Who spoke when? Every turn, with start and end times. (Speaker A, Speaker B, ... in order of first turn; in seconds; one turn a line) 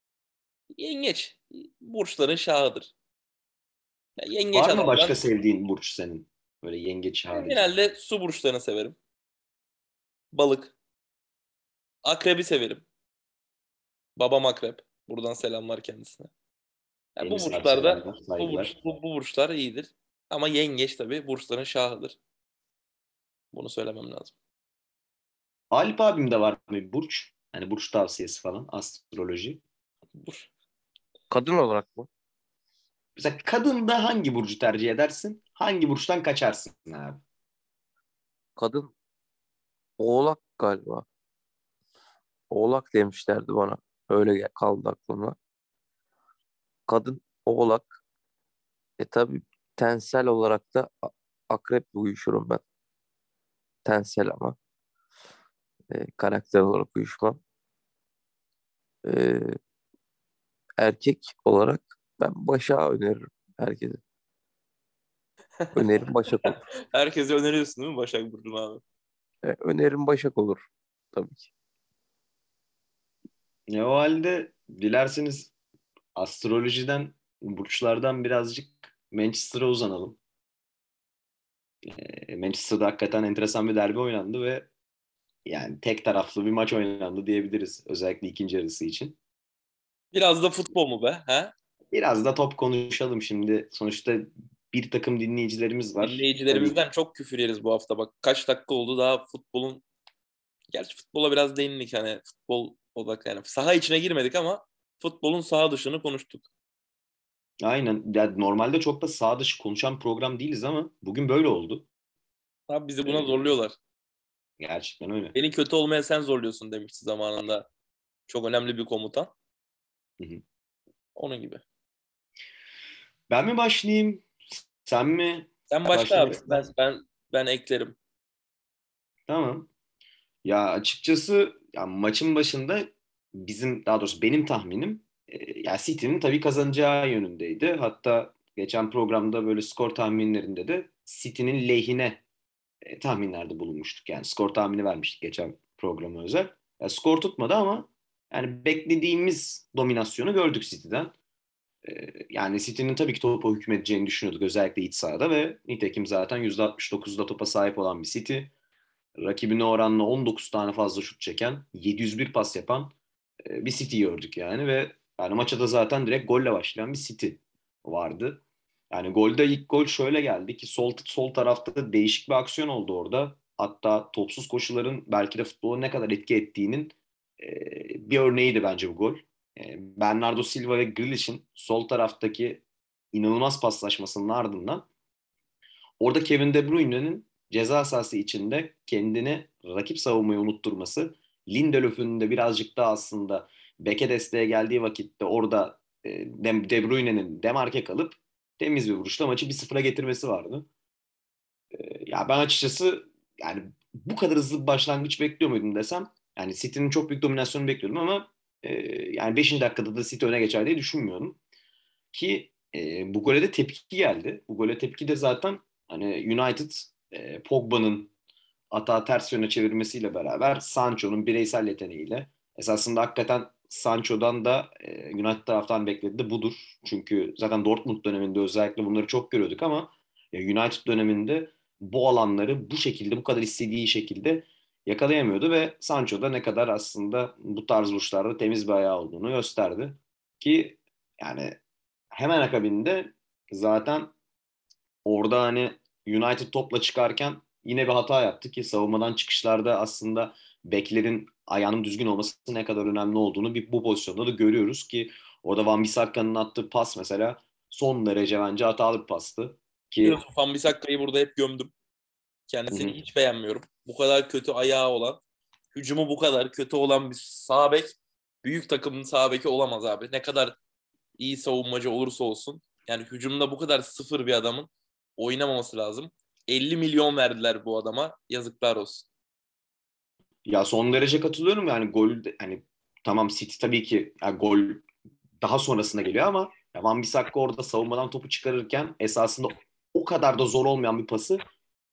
Speaker A: 0.8-2.9
Speaker A: 4.2-5.2
Speaker B: 4.5-7.7
Speaker A: 7.3-9.0
Speaker A: 10.3-10.7
Speaker A: 12.0-12.8
Speaker A: 14.2-16.3
Speaker A: 17.1-22.2
Speaker B: 17.2-18.7
Speaker A: 23.5-24.3
Speaker B: 25.7-29.6
Speaker A: 30.1-30.5
Speaker C: 31.3-32.1
Speaker B: 33.1-37.2
Speaker C: 38.6-38.9
Speaker C: 40.0-41.0
Speaker C: 42.5-45.4
Speaker C: 46.9-48.0
Speaker C: 49.0-52.6
Speaker C: 53.8-54.6
Speaker C: 55.9-57.4
Speaker C: 59.0-59.5
Speaker C: 60.8-64.0
Speaker C: 65.7-66.6
Speaker A: 66.4-68.8
Speaker C: 69.4-71.5
Speaker B: 73.7-75.5
Speaker B: 76.1-80.2
Speaker B: 81.8-84.7
Speaker B: 85.5-89.2
Speaker A: 90.1-91.5
Speaker B: 91.9-96.8
Speaker A: 96.0-99.8
Speaker A: 100.7-106.4
Speaker B: 107.6-111.9
Speaker A: 112.7-113.8
Speaker B: 113.0-113.5
Speaker B: 114.6-115.3
Speaker A: 115.3-117.7
Speaker A: 118.3-119.3
Speaker A: 121.2-121.6
Speaker B: 123.3-124.3
Speaker B: 124.8-126.7
Speaker A: 125.7-128.0
Speaker B: 129.3-129.7
Speaker B: 130.4-142.2
Speaker B: 142.8-151.1
Speaker B: 151.8-158.5
Speaker B: 159.2-162.9
Speaker B: 163.4-184.8
Speaker B: 186.0-200.7
Speaker B: 201.7-211.4
Speaker B: 212.1-218.1
Speaker B: 218.7-241.6
Speaker B: 242.1-244.1
Speaker B: 245.0-260.2
Speaker A: 260.0-261.7
Speaker A: 262.5-265.2
Speaker B: 262.7-263.0
Speaker A: 265.7-270.6
Speaker A: 271.2-279.1
Speaker B: 280.4-284.9
Speaker B: 285.4-291.4